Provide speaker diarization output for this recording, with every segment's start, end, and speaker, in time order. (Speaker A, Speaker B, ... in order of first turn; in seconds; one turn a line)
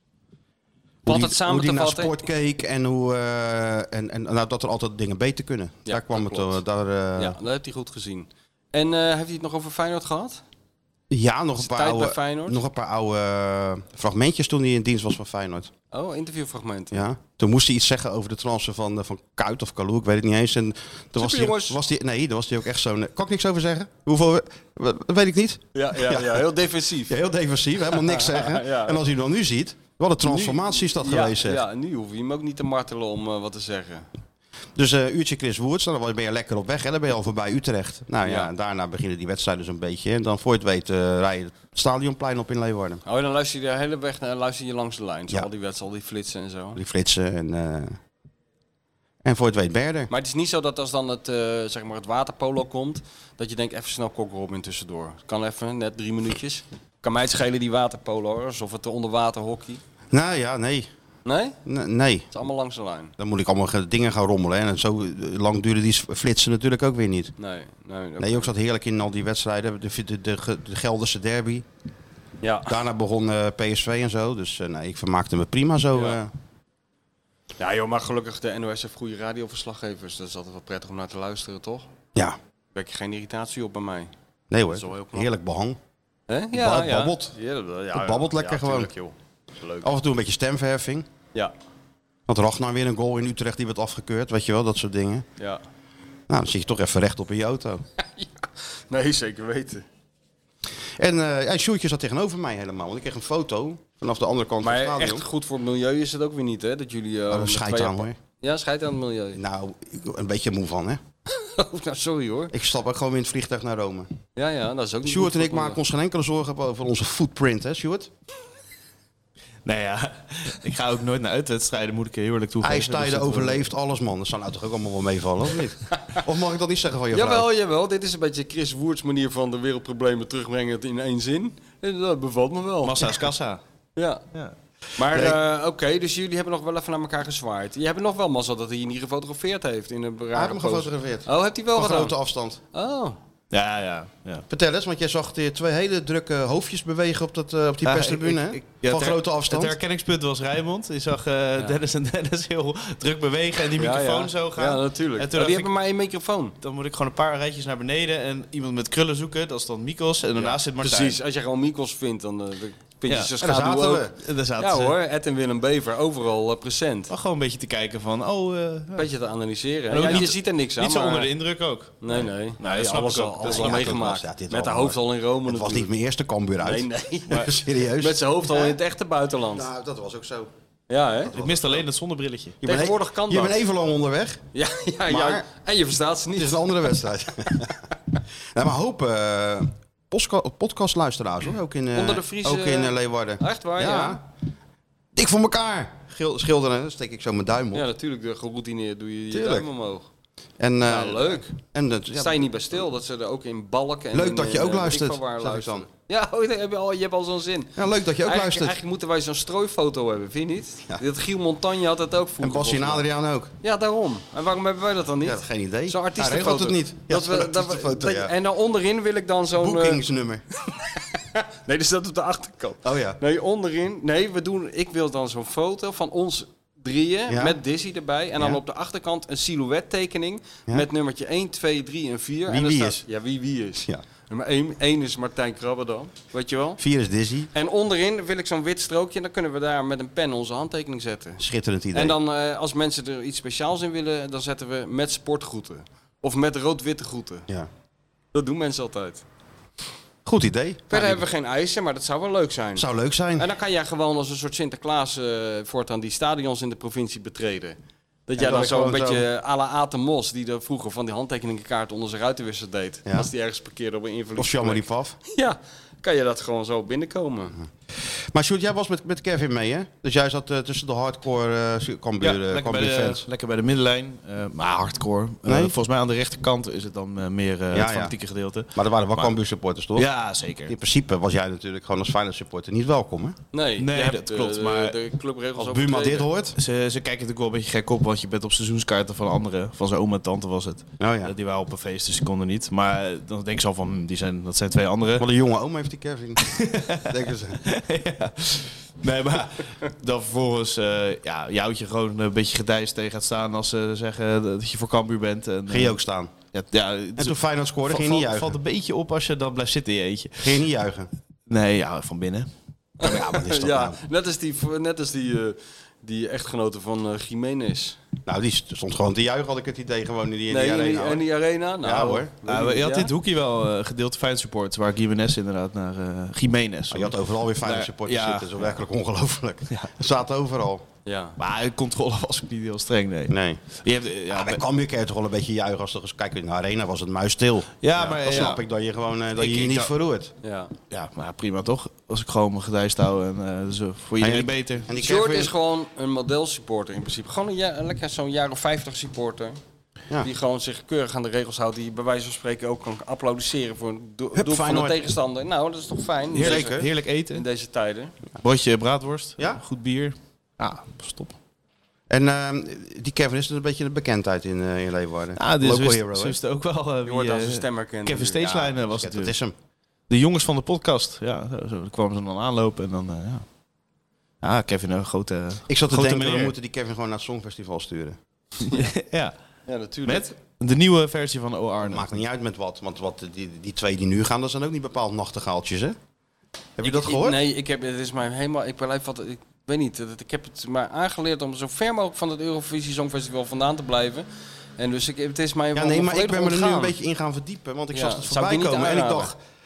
Speaker A: 1.1-2.2
Speaker B: 1.1-7.4
Speaker A: 5.8-6.6
Speaker A: 7.2-10.4
Speaker B: 11.1-15.7
Speaker A: 11.6-12.6
Speaker A: 15.9-17.0
Speaker B: 16.9-26.5
Speaker A: 21.1-21.8
Speaker A: 25.7-27.1
Speaker B: 27.1-31.6
Speaker A: 27.9-29.0
Speaker A: 30.2-34.1
Speaker B: 34.8-43.0
Speaker A: 38.2-38.5
Speaker A: 43.0-46.8
Speaker B: 46.7-48.0
Speaker B: 49.2-50.1
Speaker A: 50.1-59.8
Speaker B: 60.1-60.9
Speaker A: 61.2-61.6
Speaker B: 61.6-62.3
Speaker A: 62.3-63.1
Speaker B: 63.2-67.3
Speaker A: 67.4-68.5
Speaker B: 68.2-71.7
Speaker A: 72.4-72.8
Speaker B: 72.7-76.3
Speaker A: 77.6-81.9
Speaker A: 82.7-84.1
Speaker B: 84.5-85.8
Speaker A: 84.7-85.3
Speaker A: 86.3-89.9
Speaker B: 86.5-87.3
Speaker B: 87.9-88.9
Speaker B: 89.8-91.1
Speaker B: 92.3-95.2
Speaker B: 96.3-97.8
Speaker A: 98.2-99.8
Speaker B: 101.0-105.2
Speaker A: 104.6-109.4
Speaker B: 107.3-108.2
Speaker B: 109.3-111.0
Speaker A: 111.3-112.5
Speaker B: 112.5-114.1
Speaker A: 114.3-115.8
Speaker B: 115.0-118.1
Speaker C: 119.6-123.7
Speaker B: 122.6-127.5
Speaker A: 127.1-133.2
Speaker C: 132.8-133.6
Speaker A: 133.9-134.2
Speaker A: 135.0-142.1
Speaker B: 135.1-135.4
Speaker B: 140.3-142.6
Speaker A: 142.7-143.2
Speaker C: 143.5-144.4
Speaker B: 144.5-149.8
Speaker C: 147.8-155.7
Speaker A: 153.8-156.5
Speaker C: 156.6-161.2
Speaker A: 160.4-164.1
Speaker B: 163.4-164.2
Speaker C: 164.2-164.9
Speaker A: 164.6-167.1
Speaker C: 167.1-169.1
Speaker A: 168.9-171.3
Speaker C: 169.9-173.9
Speaker A: 172.0-175.9
Speaker B: 173.4-178.8
Speaker A: 176.6-179.7
Speaker B: 179.5-180.5
Speaker A: 180.9-181.3
Speaker B: 181.2-181.8
Speaker C: 181.3-182.6
Speaker B: 182.6-184.4
Speaker A: 182.6-183.6
Speaker A: 184.5-186.7
Speaker B: 185.1-185.4
Speaker B: 186.3-187.8
Speaker B: 188.5-194.2
Speaker A: 191.9-194.2
Speaker B: 195.1-197.9
Speaker A: 197.7-200.1
Speaker B: 199.3-199.7
Speaker B: 200.6-202.7
Speaker A: 200.8-201.5
Speaker A: 202.1-213.0
Speaker B: 204.1-205.9
Speaker B: 207.8-208.8
Speaker B: 212.4-213.5
Speaker A: 213.6-220.0
Speaker B: 215.2-218.3
Speaker B: 219.5-220.4
Speaker A: 220.7-236.8
Speaker B: 222.8-223.2
Speaker B: 227.3-227.6
Speaker B: 232.5-233.0
Speaker B: 236.8-237.5
Speaker A: 237.5-241.4
Speaker B: 241.4-242.2
Speaker A: 241.9-247.5
Speaker A: 248.3-249.2
Speaker B: 250.2-251.2
Speaker A: 250.9-267.6
Speaker B: 252.7-253.5
Speaker B: 258.4-259.2
Speaker B: 264.4-265.2
Speaker B: 268.3-273.2
Speaker C: 272.2-279.3
Speaker B: 275.4-275.7
Speaker B: 277.7-278.1
Speaker B: 278.7-280.1
Speaker C: 279.9-280.8
Speaker B: 280.7-283.4
Speaker A: 283.5-286.3
Speaker C: 283.8-285.0
Speaker B: 285.6-286.6
Speaker C: 286.6-295.3
Speaker B: 291.0-291.3
Speaker B: 295.2-297.6
Speaker C: 296.4-297.1
Speaker C: 297.6-305.9
Speaker B: 305.7-306.3
Speaker C: 306.5-310.6
Speaker B: 307.1-308.6
Speaker B: 310.4-311.1
Speaker C: 311.5-312.5
Speaker B: 313.0-314.0
Speaker A: 313.0-318.0
Speaker B: 318.2-321.2
Speaker A: 320.5-323.1
Speaker B: 321.8-322.3
Speaker C: 322.4-328.7
Speaker B: 326.9-330.8
Speaker A: 331.1-331.4
Speaker C: 331.4-334.6
Speaker B: 333.3-333.6
Speaker B: 334.3-340.3
Speaker C: 337.8-338.6
Speaker C: 339.4-339.9
Speaker A: 340.4-340.7
Speaker C: 340.9-344.9
Speaker B: 344.2-345.5
Speaker A: 344.9-349.6
Speaker A: 350.2-358.1
Speaker B: 354.3-355.1
Speaker C: 356.3-357.4
Speaker B: 356.4-356.9
Speaker C: 358.4-361.4
Speaker B: 362.1-366.4
Speaker C: 365.4-369.4
Speaker A: 367.0-368.7
Speaker B: 368.5-369.5
Speaker C: 370.1-373.4
Speaker C: 374.4-376.5
Speaker B: 375.7-378.2
Speaker C: 378.7-379.3
Speaker A: 379.7-380.3
Speaker C: 380.0-382.1
Speaker B: 381.8-385.9
Speaker B: 386.8-387.4
Speaker A: 386.8-394.2
Speaker A: 394.8-396.9
Speaker B: 395.7-399.4
Speaker A: 397.9-399.3